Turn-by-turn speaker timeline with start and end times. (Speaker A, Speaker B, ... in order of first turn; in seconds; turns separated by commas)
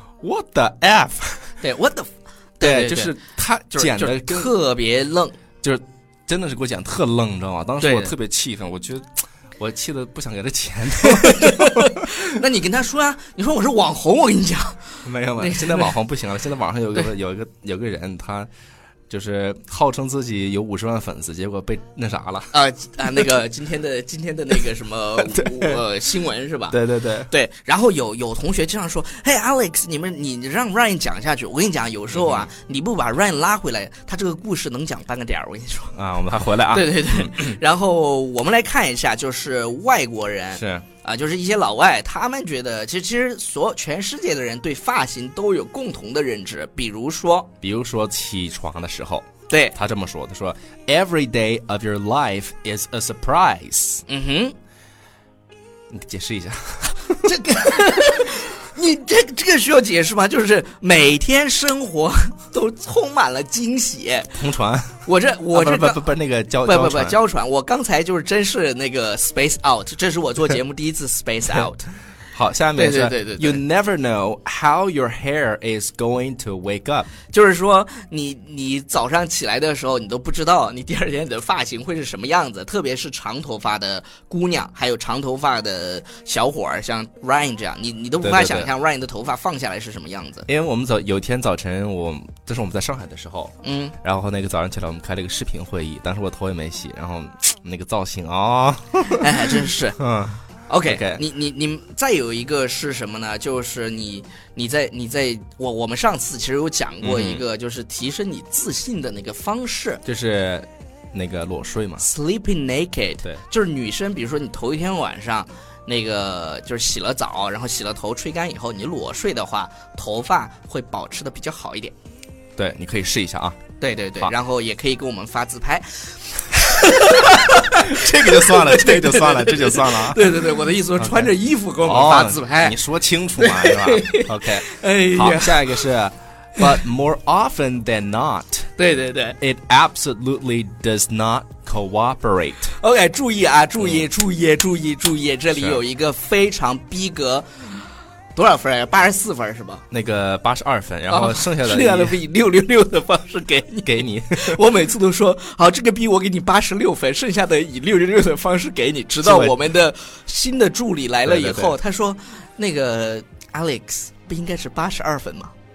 Speaker A: 0.2-1.6, Speaker B: 1.6-3.1, Speaker A: 2.6-4.5, Speaker B: 3.7-5.4, Speaker A: 5.6-12.2, Speaker B: 7.8-8.2, Speaker B: 11.1-15.9, Speaker A: 15.0-18.5, Speaker A: 19.1-22.6, Speaker B: 22.5-26.8, Speaker A: 25.3-25.8, Speaker A: 26.7-27.3, Speaker B: 27.3-36.0, Speaker A: 32.1-32.5, Speaker A: 35.9-37.6, Speaker B: 36.7-47.5, Speaker A: 40.6-40.9, Speaker A: 47.6-54.0, Speaker B: 49.5-49.8, Speaker B: 54.1-54.5, Speaker A: 55.9-57.3, Speaker B: 57.2-64.4, Speaker A: 64.3-67.2, Speaker B: 65.1-66.1, Speaker B: 66.6-71.9, Speaker A: 72.3-77.1, Speaker B: 72.8-73.6, Speaker B: 77.3-90.5, Speaker A: 88.2-88.7, Speaker A: 90.5-101.2, Speaker B: 93.6-94.0, Speaker B: 99.1-100.0, Speaker B: 100.7-110.0, Speaker A: 107.0-107.4, Speaker A: 110.0-112.1, Speaker B: 112.0-122.0, Speaker A: 122.6-123.6, Speaker B: 123.8-132.8, Speaker A: 127.1-130.4, Speaker A: 131.0-138.7, Speaker B: 133.4-135.8, Speaker B: 138.8-139.4, Speaker A: 139.4-142.8, Speaker B: 142.8-149.8, Speaker A: 149.9-152.2, Speaker B: 151.1-165.5, Speaker A: 153.8-154.6, Speaker A: 159.2-159.6, Speaker A: 161.3-161.8